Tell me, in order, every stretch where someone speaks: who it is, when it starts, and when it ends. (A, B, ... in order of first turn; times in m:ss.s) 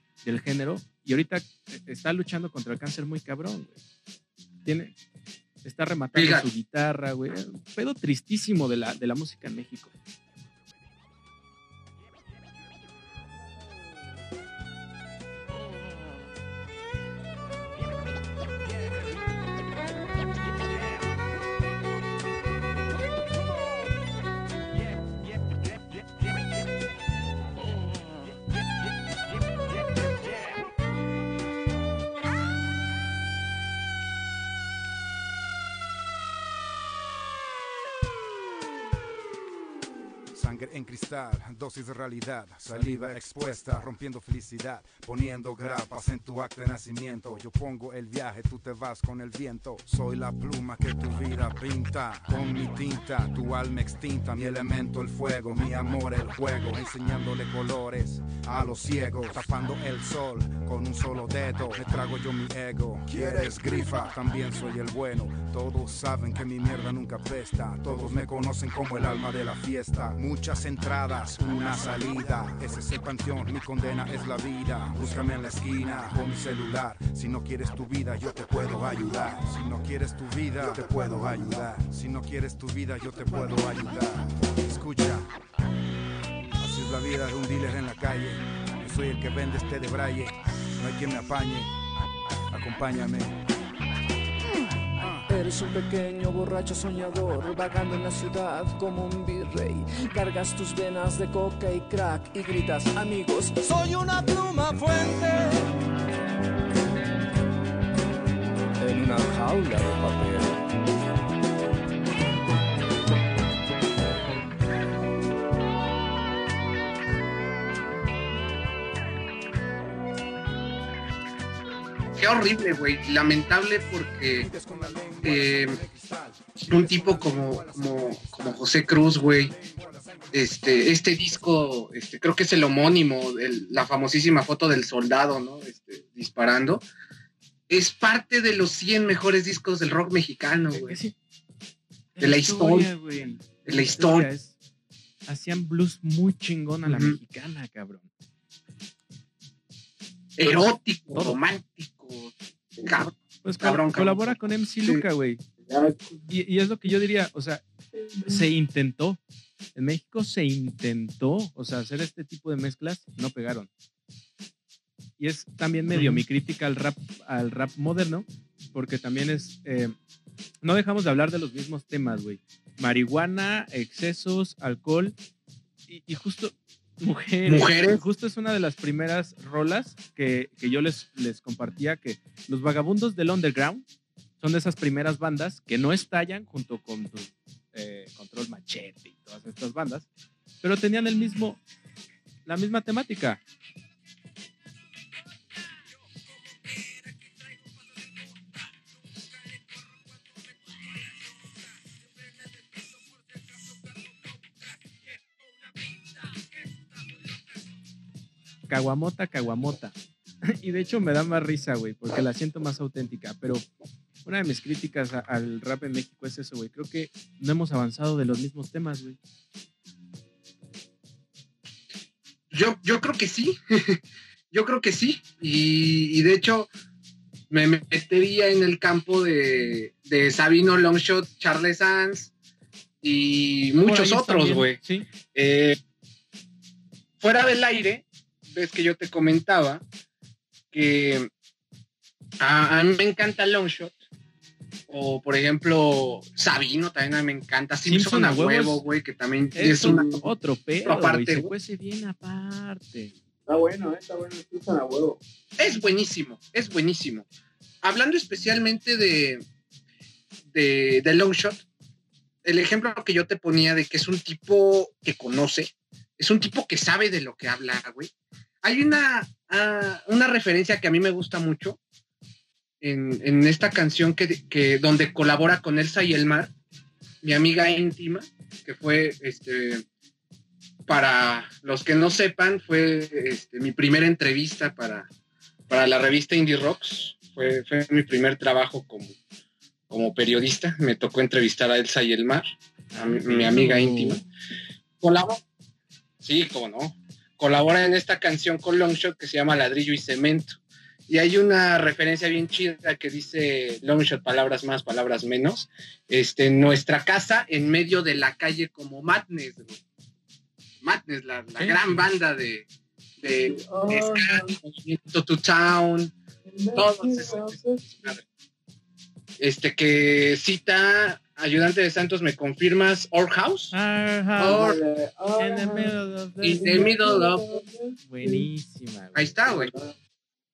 0:00.2-0:03.8 A
0:04.6-0:04.9 A
0:05.6-0:09.9 A
0:06.1-0:06.5 B
0:40.3-1:25.3 C
1:03.2-1:03.8 D
1:26.6-1:31.7 C
1:32.5-1:33.3 C
1:35.0-1:35.3 C
1:35.3-1:45.7 D
1:48.8-1:50.6 D
2:02.2-2:04.5 B
2:04.4-2:06.6 C
2:05.2-2:05.8 B
2:06.7-2:09.5 B
2:07.1-2:08.2 C
2:08.8-2:10.3 C
2:10.3-2:16.8 B
2:17.7-2:21.0 B
2:20.7-2:21.1 A
2:22.1-2:24.5 A
2:22.2-2:22.9 B
2:23.6-2:24.3 B
2:25.3-2:28.1 A
2:26.8-2:27.2 B
2:30.4-2:32.3 B
2:30.4-2:31.4 A
2:32.8-2:35.0 B
2:33.4-2:35.4 A
2:35.6-2:36.2 E
2:36.3-2:37.6 A
2:37.9-2:38.5 E
2:38.2-2:39.2 A
2:39.7-2:43.7 A
2:45.2-2:49.9 A
2:45.9-2:46.2 B
2:50.6-2:55.1 A
2:55.9-3:03.8 A
2:57.4-2:58.0 B
3:04.4-3:10.1 A
3:10.6-3:11.6 A
3:12.4-3:13.4 A
3:28.7-3:33.6 A
3:34.2-3:39.2 A
3:42.5-3:44.0 B
3:44.5-3:46.7 B
3:47.5-3:52.3 B
3:53.0-3:55.8 B
3:53.8-3:55.1 A
3:57.2-3:59.8 B
4:00.7-4:01.3 B
4:02.4-4:03.9 B
4:04.9-4:10.2 B
4:07.8-4:08.8 A
4:09.6-4:13.1 A
4:09.7-4:10.2 E
4:10.8-4:11.5 B
4:13.5-4:15.2 E
4:15.6-4:17.2 B
4:17.8-4:19.4 B
4:20.5-4:21.6 B
4:22.4-4:28.1 B
4:28.6-4:31.8 B
4:32.8-4:36.5 B
4:37.2-4:39.8 B
4:40.9-4:45.1 B
4:45.7-4:49.2 B
4:49.9-4:52.4 B
4:52.9-4:54.2 A
4:53.0-4:54.2 B
4:55.0-4:55.4 B
4:56.2-5:09.8 B
5:10.8-5:12.7 B
5:11.6-5:12.0 A
5:13.2-5:16.1 B
5:13.4-5:14.5 E
5:16.5-5:18.1 E
5:16.7-5:18.2 B
5:19.4-5:23.7 B
5:23.7-5:24.8 A
5:24.4-5:24.8 B
5:24.4-5:25.9 E
5:25.3-5:27.0 A
5:26.4-5:27.6 B
5:26.5-5:28.5 E
5:28.1-5:29.6 A
5:29.1-5:29.7 B
5:29.5-5:29.9 E